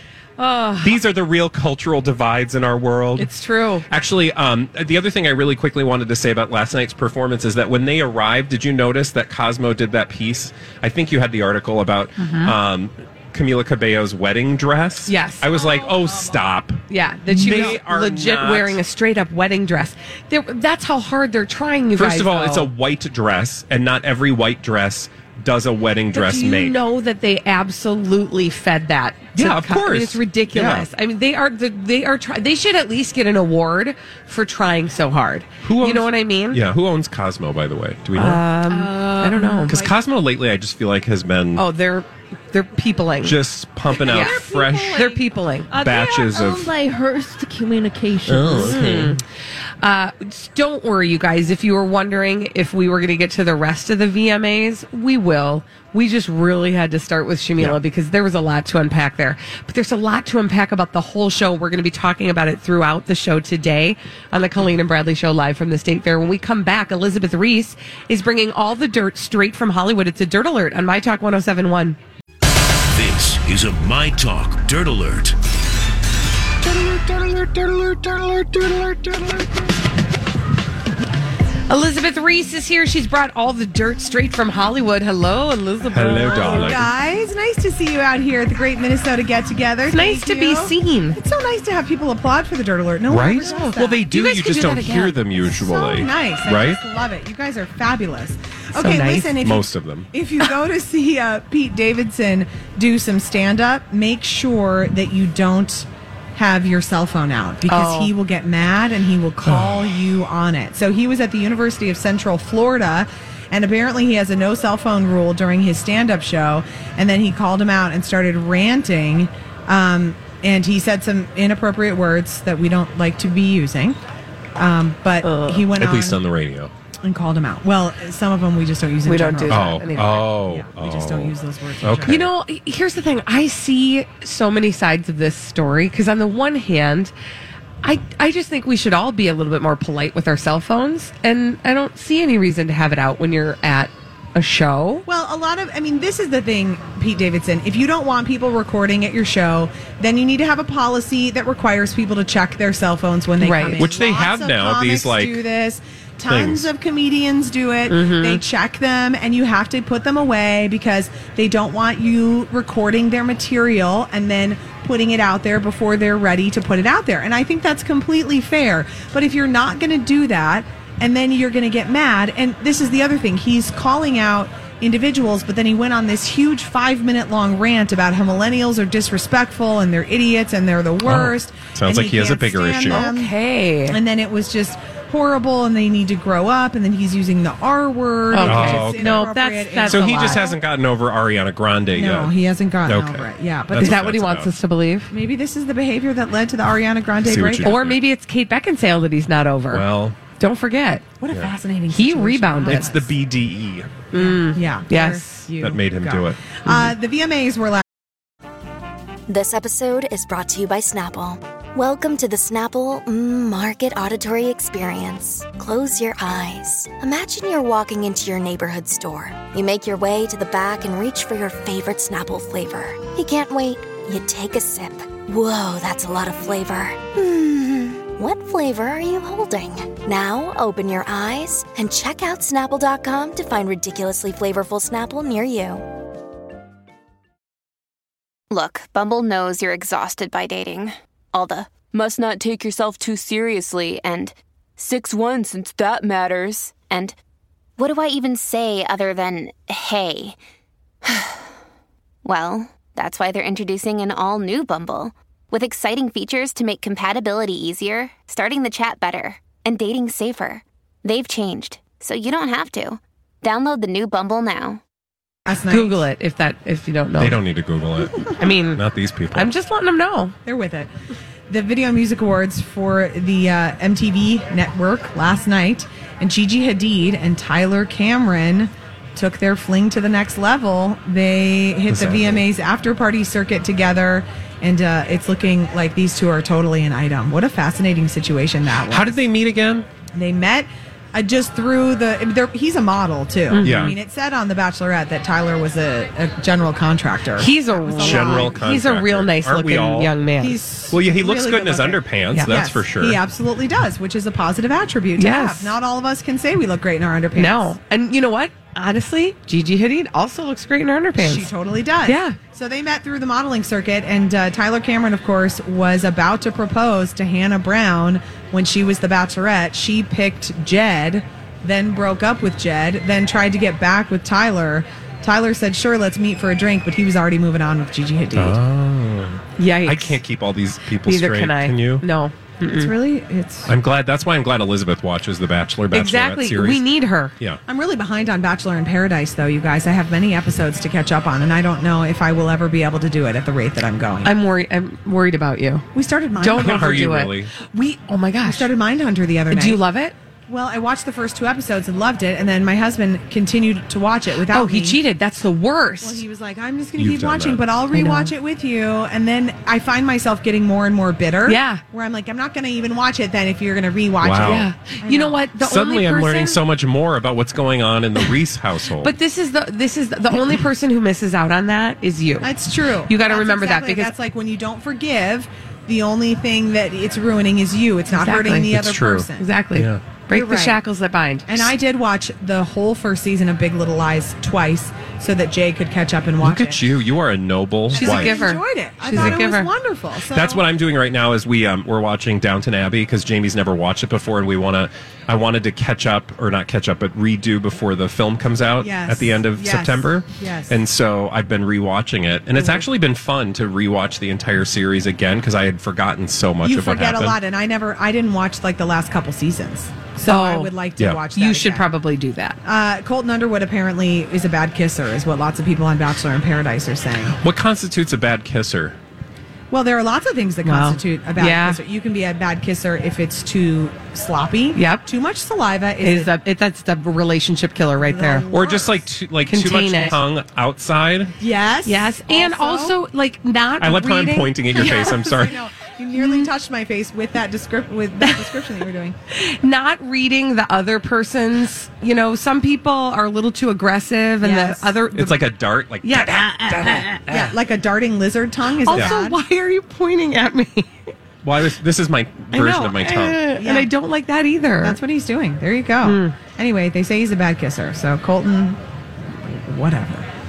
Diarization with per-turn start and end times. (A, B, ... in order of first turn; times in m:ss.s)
0:00.4-0:01.0 A
0:00.8-0:03.3 B
0:03.2-0:03.9 A
0:03.9-0:18.8 B
0:15.1-0:15.5 A
0:16.9-0:22.7 A
0:22.0-0:26.8 B
0:26.1-0:36.6 A
0:29.4-0:30.9 B
0:35.6-0:38.4 B
0:38.2-0:39.8 A
0:38.7-0:39.9 C
0:39.7-0:41.6 B
0:41.6-0:43.4 A
0:43.2-0:45.0 B
0:43.9-0:48.8 C
0:44.0-0:45.7 A
0:45.8-0:46.7 B
0:48.2-0:49.2 B
0:48.5-0:49.2 A
0:49.8-1:12.0 A
1:12.9-1:15.4 D
1:17.0-1:19.1 B
1:21.7-1:26.8 A
1:25.8-1:26.9 B
1:26.4-1:34.0 E
1:29.9-1:31.2 A
1:33.1-1:36.8 B
1:33.5-1:35.2 A
1:35.5-2:04.0 E
1:38.8-1:39.3 A
1:39.4-1:40.1 B
1:47.7-1:48.1 A
1:49.4-1:49.9 B
2:04.6-2:06.2 E
2:05.2-2:05.7 A
2:05.7-2:06.7 B
2:07.0-2:12.2 E
2:09.0-2:10.2 A
2:09.5-2:12.3 B
2:12.1-2:17.1 A
2:17.8-2:25.1 A
2:25.1-3:03.3 E
2:33.4-2:33.9 A
2:33.8-2:35.4 B
2:36.3-2:36.7 B
2:37.9-2:38.4 A
3:01.0-3:03.1 B
3:02.9-3:04.0 A
3:03.9-3:10.6 E
3:08.3-3:10.4 A
3:08.4-3:09.3 B
3:09.8-3:12.3 B
3:11.9-3:14.0 E
3:12.8-3:14.5 B
3:13.8-3:15.1 A
3:15.1-3:17.7 E
3:17.2-3:18.0 B
3:17.6-3:19.8 A
3:19.7-3:20.2 B
3:20.4-3:21.1 A
3:21.2-3:23.1 E
3:21.9-3:22.9 A
3:22.7-3:24.1 B
3:24.1-3:25.5 A
3:24.1-3:27.8 E
3:25.6-3:26.9 B
3:29.3-3:55.8 F
3:58.5-4:07.2 G
4:07.8-4:10.4 G
4:11.0-4:11.4 G
4:12.2-4:24.8 G
4:25.5-4:26.1 E
4:25.7-4:27.4 A
4:27.2-4:29.5 B
4:28.4-4:28.8 A
4:29.3-4:30.3 A
4:30.5-4:30.9 E
4:31.5-4:49.2 E
4:41.9-4:42.4 B
4:48.9-4:49.9 B
4:50.2-4:58.6 E
4:53.5-4:54.0 A
4:53.6-4:54.0 B
4:57.4-5:00.6 A
4:58.0-5:00.1 B
5:00.4-5:07.7 E
5:00.9-5:03.2 B
5:05.2-5:05.8 A
5:07.4-5:11.5 A
5:11.2-5:28.6 E
5:12.0-5:12.4 A
5:28.4-5:32.0 B
5:29.6-5:30.2 A
5:31.0-5:32.9 A
5:32.6-5:33.7 E
5:33.7-5:36.8 B
5:35.9-5:37.3 A
5:37.7-5:44.3 E
5:44.2-5:45.9 A
5:45.9-5:47.2 E
5:46.4-5:48.7 A
5:46.5-5:47.5 B
5:48.4-5:49.8 E
5:49.5-5:50.2 A
5:50.5-5:55.0 E
5:54.5-5:56.2 A
5:56.0-6:05.4 E
5:57.0-5:57.6 B
5:57.9-5:58.3 A
6:01.4-6:01.8 A
6:04.2-6:04.7 B
6:04.4-6:06.6 A
6:05.6-6:09.1 B
6:09.0-6:12.5 A
6:12.4-6:19.4 E
6:13.1-6:14.1 A
6:18.1-6:18.8 A
6:18.7-6:20.0 B
6:19.4-6:21.7 A
6:20.3-6:20.8 E
6:21.5-6:26.8 E
6:26.4-6:28.5 B
6:27.9-6:30.6 E
6:27.9-6:29.7 A
6:29.1-6:29.5 B
6:30.3-6:47.4 B
6:38.8-6:40.8 E
6:42.6-6:42.8 E
6:46.6-6:51.9 E
6:50.2-6:50.7 A
6:51.3-6:52.6 A
6:52.6-6:57.4 E
6:57.4-6:59.0 B
6:59.7-7:06.3 E
7:00.6-7:01.8 A
7:04.8-7:05.0 A
7:06.0-7:08.5 A
7:08.0-7:09.0 E
7:08.5-7:11.3 B
7:09.5-7:10.2 A
7:11.4-7:13.0 E
7:11.8-7:15.5 A
7:13.8-7:15.6 B
7:14.8-7:19.2 E
7:16.2-7:16.5 A
7:18.2-7:18.6 A
7:19.3-7:25.5 A
7:24.4-7:24.9 E
7:25.1-7:27.5 B
7:26.0-7:27.3 A
7:27.3-7:29.4 E
7:28.8-7:30.9 A
7:31.4-7:33.5 B
7:32.5-7:33.0 E
7:33.0-7:35.0 A
7:33.6-7:33.9 E
7:34.8-7:40.3 E
7:36.0-7:36.4 A